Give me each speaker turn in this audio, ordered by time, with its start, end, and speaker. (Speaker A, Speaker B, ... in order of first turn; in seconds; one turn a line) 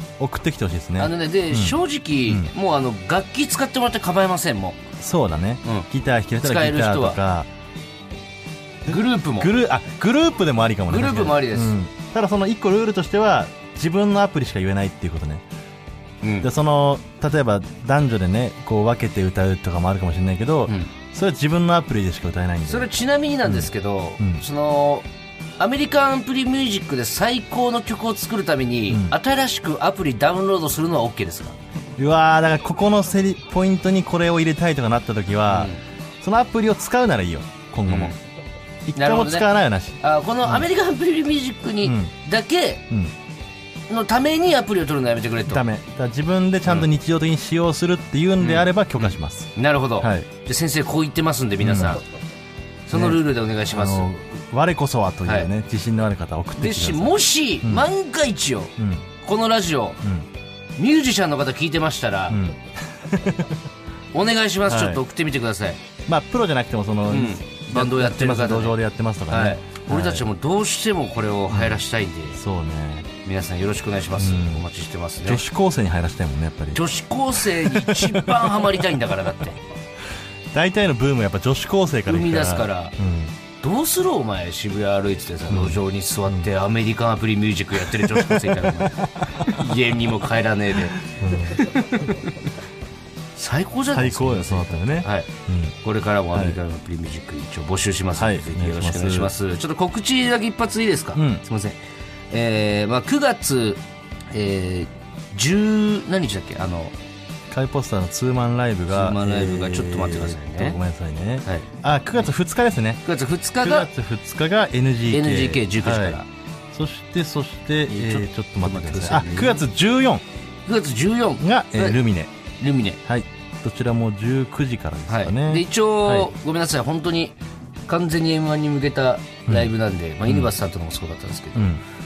Speaker A: 0.2-2.5
Speaker B: 1.0-4.8
Speaker A: 5.0-7.5
Speaker B: 6.4-7.2
Speaker A: 8.9-15.4
Speaker B: 8.9-9.5
Speaker B: 10.9-11.8
Speaker B: 16.2-16.5
Speaker A: 16.4-22.9
Speaker B: 22.7-25.1
Speaker A: 23.4-24.4
Speaker B: 25.6-31.6
Speaker A: 28.9-29.2
Speaker A: 32.0-38.2
Speaker B: 35.5-35.8
Speaker B: 37.9-38.2
Speaker A: 38.9-40.7
Speaker B: 39.0-39.5
Speaker B: 40.0-42.9
Speaker A: 41.8-42.1
Speaker B: 43.9-45.6
Speaker A: 45.5-50.3
Speaker B: 48.4-52.0
Speaker A: 51.6-52.0
Speaker B: 52.9-54.1
Speaker A: 52.9-57.9
Speaker B: 56.6-60.0
Speaker A: 58.8-59.1
Speaker A: 60.0-60.3
Speaker B: 60.8-62.4
Speaker A: 62.3-63.6
Speaker B: 64.1-65.8
Speaker A: 64.7-65.0
Speaker A: 66.1-70.3
Speaker B: 67.1-72.4
Speaker A: 71.5-73.1
Speaker B: 73.2-75.4
Speaker A: 74.2-74.7
Speaker A: 75.2-76.8
Speaker B: 76.7-79.6
Speaker A: 77.3-78.5
Speaker A: 80.5-83.4
Speaker B: 82.1-83.0
Speaker B: 83.6-91.0
Speaker A: 85.5-86.5
Speaker A: 87.9-89.6
Speaker A: 91.0-91.7
Speaker B: 91.6-92.4
Speaker B: 93.4-95.3
Speaker A: 93.9-95.8
Speaker B: 95.8-101.8
Speaker A: 96.3-96.6
Speaker A: 98.2-99.3
Speaker A: 101.2-101.4
Speaker B: 102.3-107.0
Speaker A: 107.5-113.0
Speaker B: 108.9-110.8
Speaker B: 113.0-113.9
Speaker A: 113.6-116.2
Speaker B: 115.1-116.3
Speaker A: 116.7-120.2
Speaker B: 117.9-119.6
Speaker B: 120.7-122.0
Speaker A: 121.4-122.3
Speaker B: 122.6-123.0
Speaker A: 123.0-126.3
Speaker B: 125.1-131.8
Speaker A: 129.5-129.7
Speaker A: 130.3-130.5
Speaker A: 131.6-131.8